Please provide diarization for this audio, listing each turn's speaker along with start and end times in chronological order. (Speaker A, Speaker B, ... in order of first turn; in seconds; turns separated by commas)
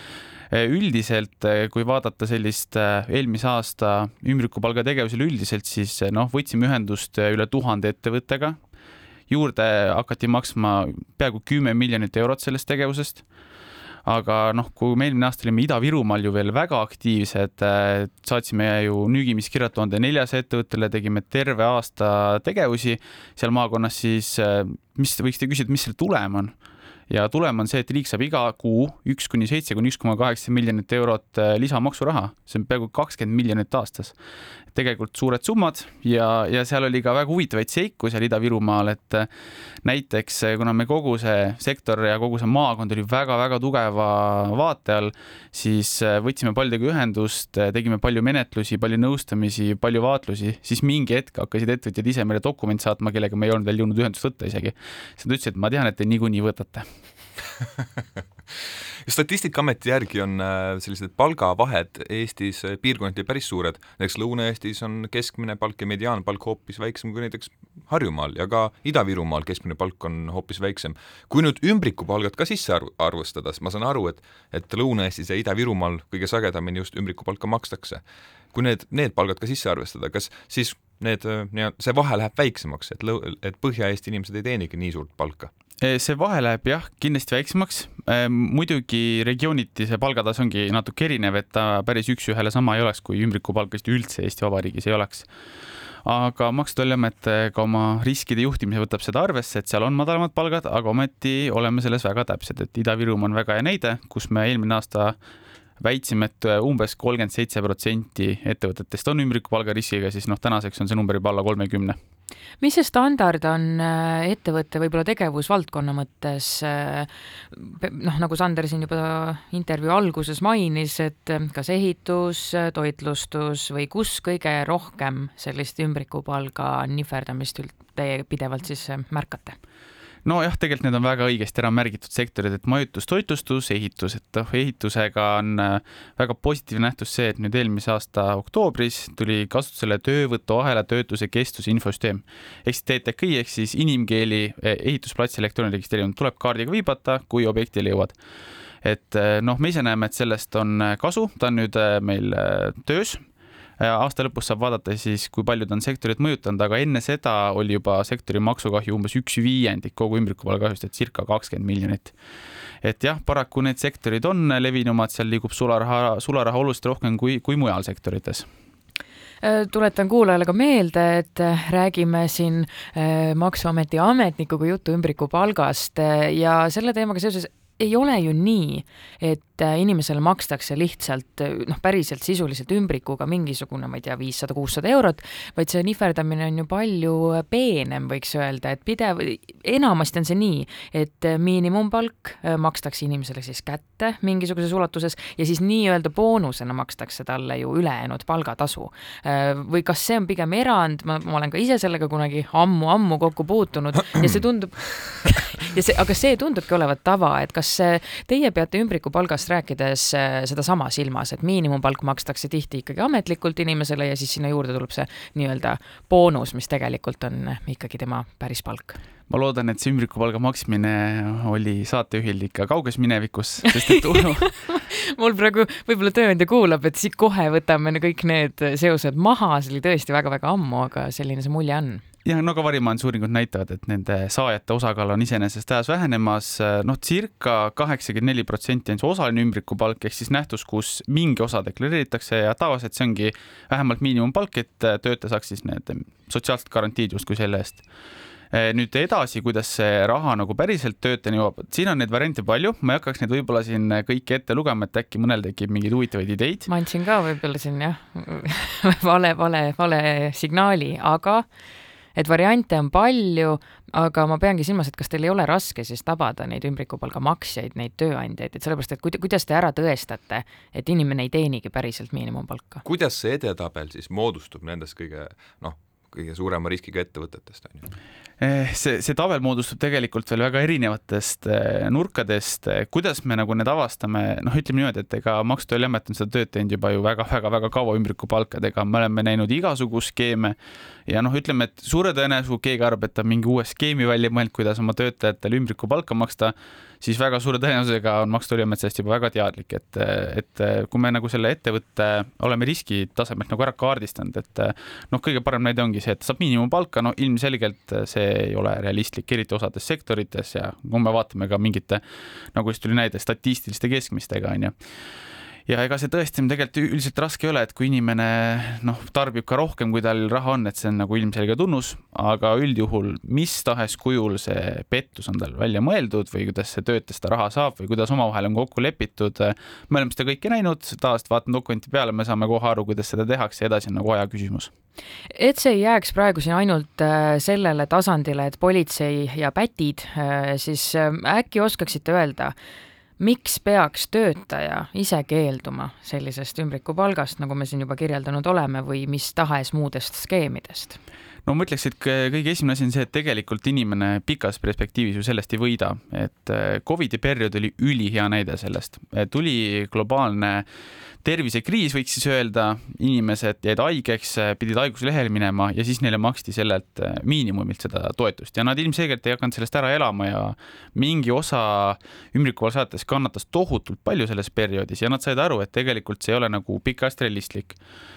Speaker A: 0.5-8.6, Speaker A: 9.3-13.2, Speaker A: 14.1-26.5, Speaker A: 27.1-34.1, Speaker A: 34.7-39.3, Speaker A: 39.8-56.9, Speaker B: 59.1-78.0, Speaker B: 78.5-85.5, Speaker A: 85.8-95.3, Speaker A: 96.0-105.2, Speaker A: 105.8-112.0, Speaker C: 112.6-129.6, Speaker A: 130.2-148.2, Speaker A: 148.8-153.2, Speaker A: 153.8-162.2, Speaker A: 162.8-168.5, Speaker C: 169.4-219.0, Speaker A: 219.3-224.5, Speaker C: 224.4-232.0, Speaker A: 232.2-247.8, Speaker A: 248.5-256.7, Speaker C: 256.7-261.5, Speaker C: 262.2-272.8, Speaker B: 272.8-277.9, Speaker A: 278.4-290.6, Speaker A: 291.1-312.0, Speaker A: 312.5-314.7, Speaker A: 315.7-334.7, Speaker C: 335.3-342.6, Speaker C: 343.2-351.0, Speaker A: 351.5-360.7, Speaker A: 361.2-377.8